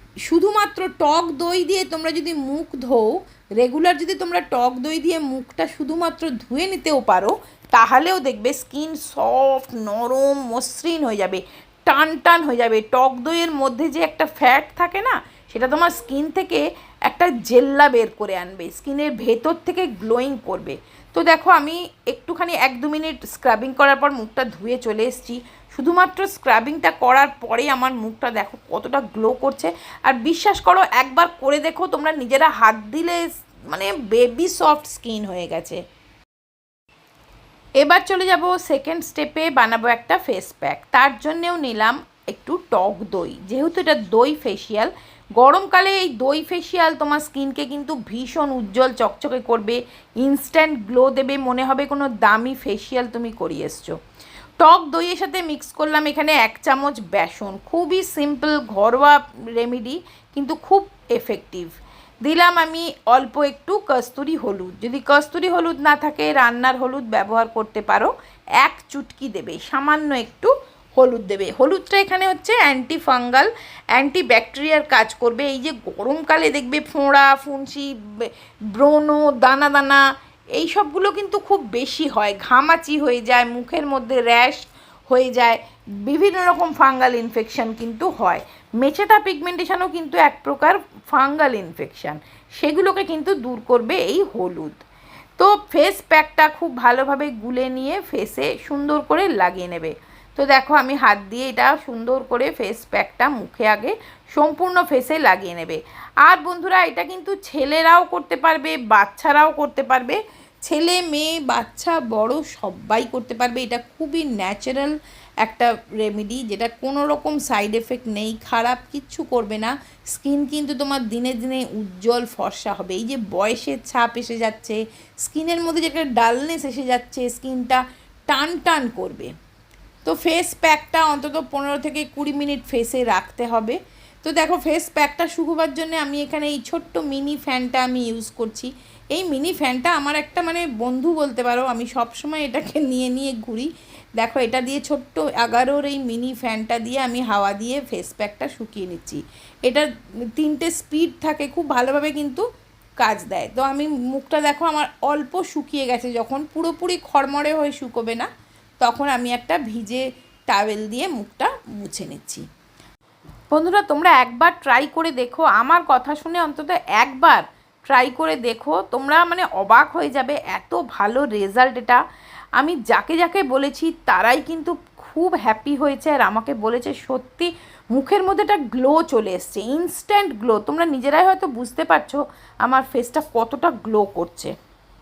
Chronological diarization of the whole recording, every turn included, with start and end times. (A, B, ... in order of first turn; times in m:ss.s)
0:00.3-0:35.8 A
0:37.8-0:54.0 A
0:54.6-1:20.0 A
1:20.6-1:34.8 A
1:35.4-1:54.9 A
1:55.4-2:09.3 A
2:10.0-2:32.4 A
2:33.0-2:38.3 A
2:38.8-2:42.4 A
2:43.5-2:52.0 A
2:52.6-3:04.5 A